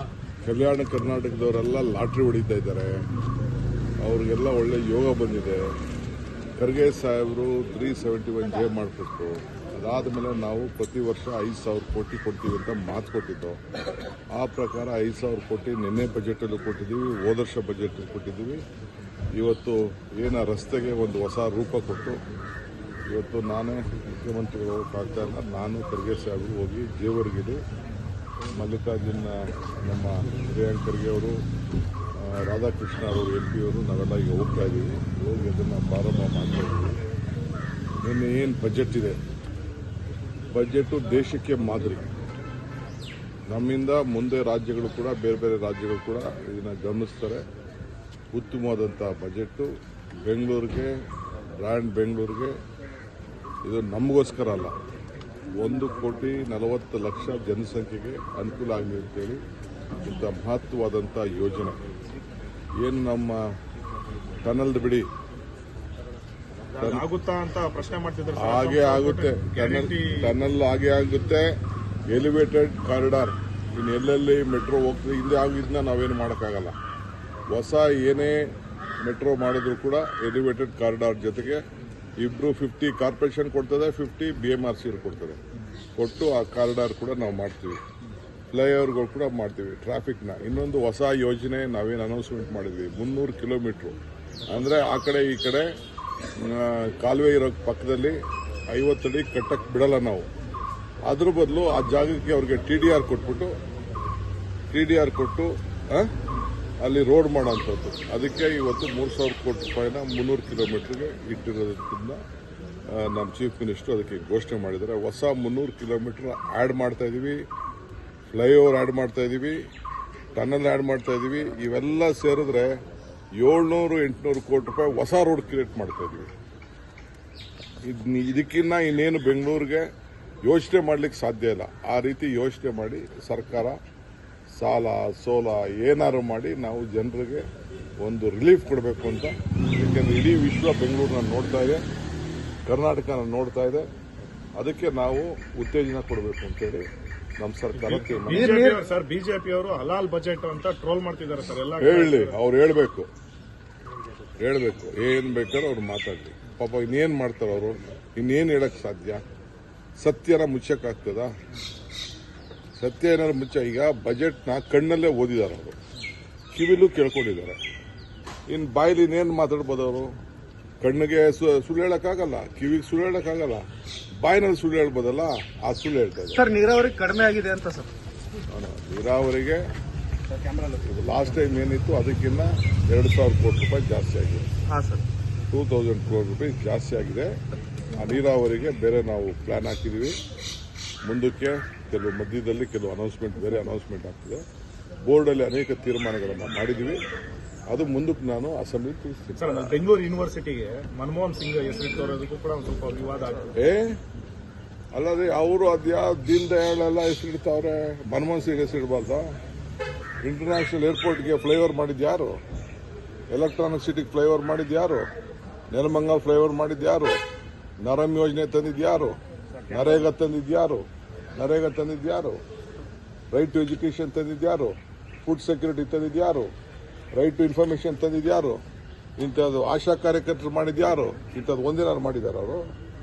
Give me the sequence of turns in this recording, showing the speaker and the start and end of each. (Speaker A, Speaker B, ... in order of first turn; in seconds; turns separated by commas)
Speaker A: 0.5-3.0, Speaker A: 4.0-5.7, Speaker A: 6.6-13.6, Speaker A: 14.3-18.6, Speaker A: 19.4-22.2, Speaker A: 23.1-27.6, Speaker A: 28.6-31.4, Speaker A: 32.2-37.0, Speaker A: 38.0-39.2, Speaker A: 40.5-42.1, Speaker A: 43.5-47.5, Speaker A: 48.3-49.7, Speaker A: 50.3-50.9, Speaker A: 51.6-52.6, Speaker A: 53.7-54.7, Speaker A: 55.6-59.4, Speaker A: 60.0-61.8, Speaker A: 62.8-63.5, Speaker A: 64.4-65.1, Speaker B: 66.7-70.4, Speaker A: 66.8-67.0, Speaker A: 68.4-71.5, Speaker A: 72.1-76.7, Speaker A: 77.5-78.5, Speaker A: 79.0-81.6, Speaker A: 82.2-85.4, Speaker A: 86.0-87.8, Speaker A: 88.5-94.0, Speaker A: 94.5-95.7, Speaker A: 96.4-98.2, Speaker A: 98.7-100.3, Speaker A: 101.1-103.5, Speaker A: 104.7-106.1, Speaker A: 106.8-112.2, Speaker A: 112.9-117.4, Speaker A: 118.3-119.6, Speaker A: 120.3-122.8, Speaker A: 123.4-126.3, Speaker A: 127.8-129.9, Speaker A: 130.4-133.8, Speaker A: 134.6-137.5, Speaker A: 138.0-141.8, Speaker A: 142.7-143.9, Speaker A: 144.6-146.8, Speaker A: 147.4-148.6, Speaker B: 147.8-152.4, Speaker C: 148.3-148.9, Speaker A: 151.8-153.1, Speaker A: 154.4-159.2, Speaker A: 160.0-161.3, Speaker A: 162.8-165.8, Speaker A: 166.5-167.6, Speaker A: 168.5-170.1, Speaker A: 170.8-173.7, Speaker A: 174.2-176.4, Speaker C: 176.3-177.9, Speaker A: 178.5-179.7, Speaker A: 180.8-184.5, Speaker C: 184.7-185.0, Speaker A: 185.5-187.4, Speaker A: 187.9-190.2, Speaker A: 191.1-194.4, Speaker A: 195.1-197.0, Speaker A: 197.7-199.8, Speaker B: 199.4-203.6, Speaker A: 203.6-204.0, Speaker A: 204.9-209.3, Speaker A: 210.2-212.4, Speaker A: 213.3-215.1, Speaker A: 215.7-217.2, Speaker A: 217.8-220.8, Speaker A: 221.4-222.4, Speaker A: 223.3-226.5, Speaker A: 227.1-228.6, Speaker A: 229.2-232.7